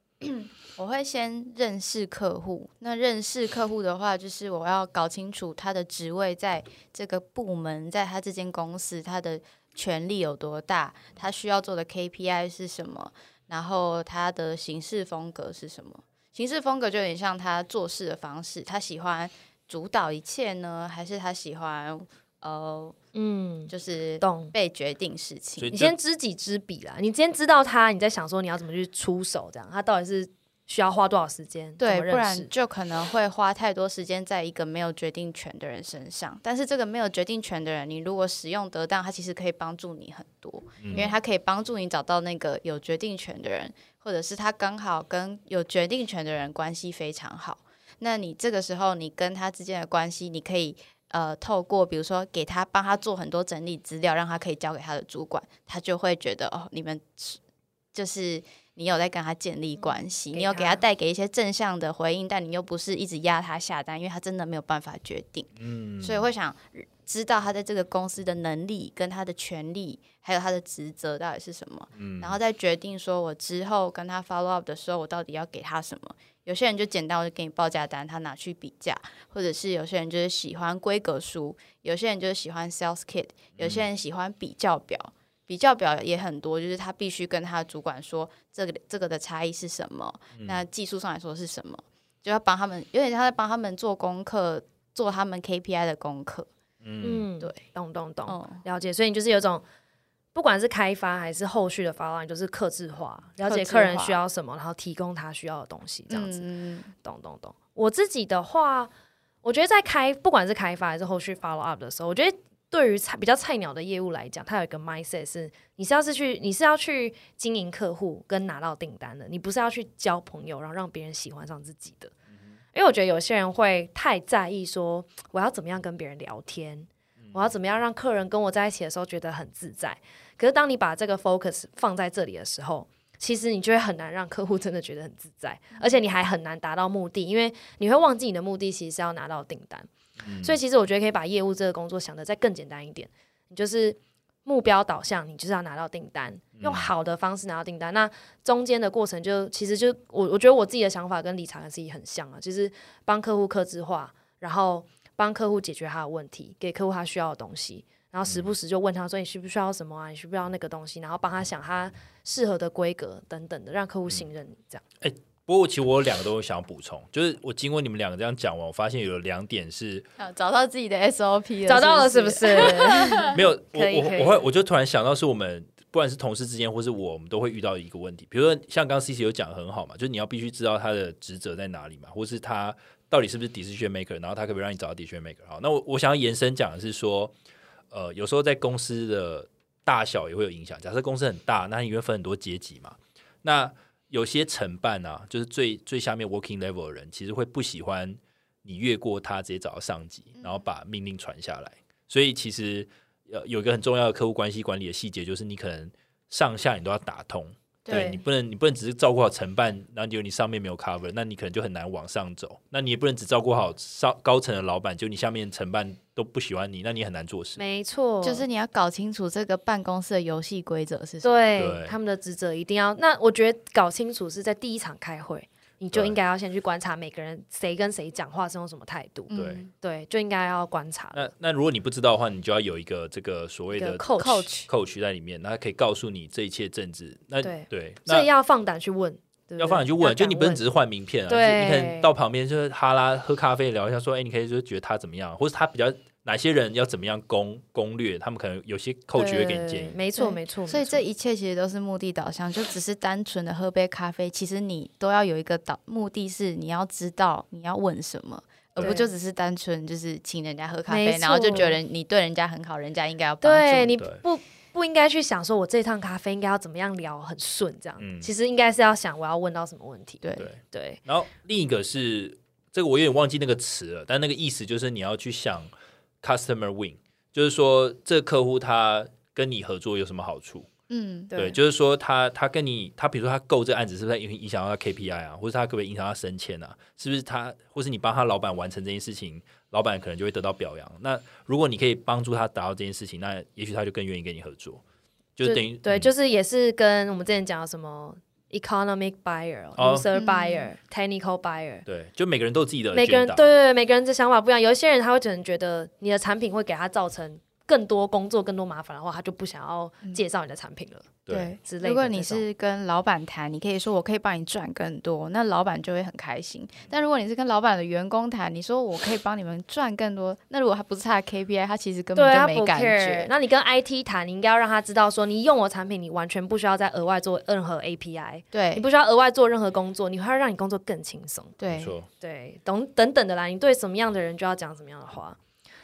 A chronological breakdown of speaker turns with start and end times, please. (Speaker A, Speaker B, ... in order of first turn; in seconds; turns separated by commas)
Speaker A: 0.2-22.9, Speaker B: 23.1-24.5, Speaker A: 23.7-25.7, Speaker C: 25.6-25.9, Speaker B: 25.7-32.5, Speaker A: 31.8-57.4, Speaker C: 40.8-41.1, Speaker A: 57.9-96.5, Speaker B: 59.9-60.8, Speaker C: 65.6-66.3, Speaker C: 72.0-72.4, Speaker C: 83.6-83.8, Speaker C: 90.3-90.6, Speaker C: 96.8-97.3, Speaker B: 97.0-99.6, Speaker A: 98.3-98.6, Speaker B: 100.3-106.4, Speaker A: 103.4-104.2, Speaker A: 106.1-106.9, Speaker B: 107.0-108.9, Speaker B: 109.4-122.1, Speaker B: 122.7-139.9, Speaker C: 127.2-127.5, Speaker C: 140.2-140.6, Speaker B: 140.4-164.8, Speaker C: 146.6-146.9, Speaker C: 158.2-158.5, Speaker C: 165.0-170.1, Speaker A: 170.2-173.4, Speaker B: 171.7-174.4, Speaker C: 173.3-187.3, Speaker C: 187.9-217.6, Speaker A: 200.4-200.6, Speaker A: 207.8-208.1, Speaker B: 207.9-208.2, Speaker B: 217.6-218.4, Speaker A: 218.2-221.4, Speaker B: 221.2-231.3, Speaker C: 221.6-221.9, Speaker A: 229.3-229.7, Speaker C: 229.3-229.7, Speaker C: 231.1-238.3, Speaker B: 233.7-234.5, Speaker A: 234.2-234.7, Speaker B: 237.4-240.6, Speaker C: 239.6-250.0, Speaker B: 241.3-242.1, Speaker B: 249.1-251.0, Speaker A: 250.2-264.0, Speaker B: 258.8-259.1, Speaker B: 260.9-261.8, Speaker B: 263.4-271.0, Speaker C: 268.0-268.3, Speaker A: 270.2-270.5, Speaker C: 270.4-275.7, Speaker C: 276.2-280.7, Speaker A: 280.9-281.4, Speaker B: 281.3-281.6, Speaker C: 281.3-294.8, Speaker C: 295.4-296.1, Speaker B: 295.4-301.8, Speaker C: 299.8-300.1, Speaker A: 300.1-300.7, Speaker C: 301.9-303.5, Speaker B: 302.9-312.4, Speaker C: 311.2-311.5, Speaker A: 311.3-323.3, Speaker B: 322.1-331.5, Speaker A: 328.5-328.8, Speaker A: 331.6-331.9, Speaker C: 331.7-332.1, Speaker B: 332.2-335.4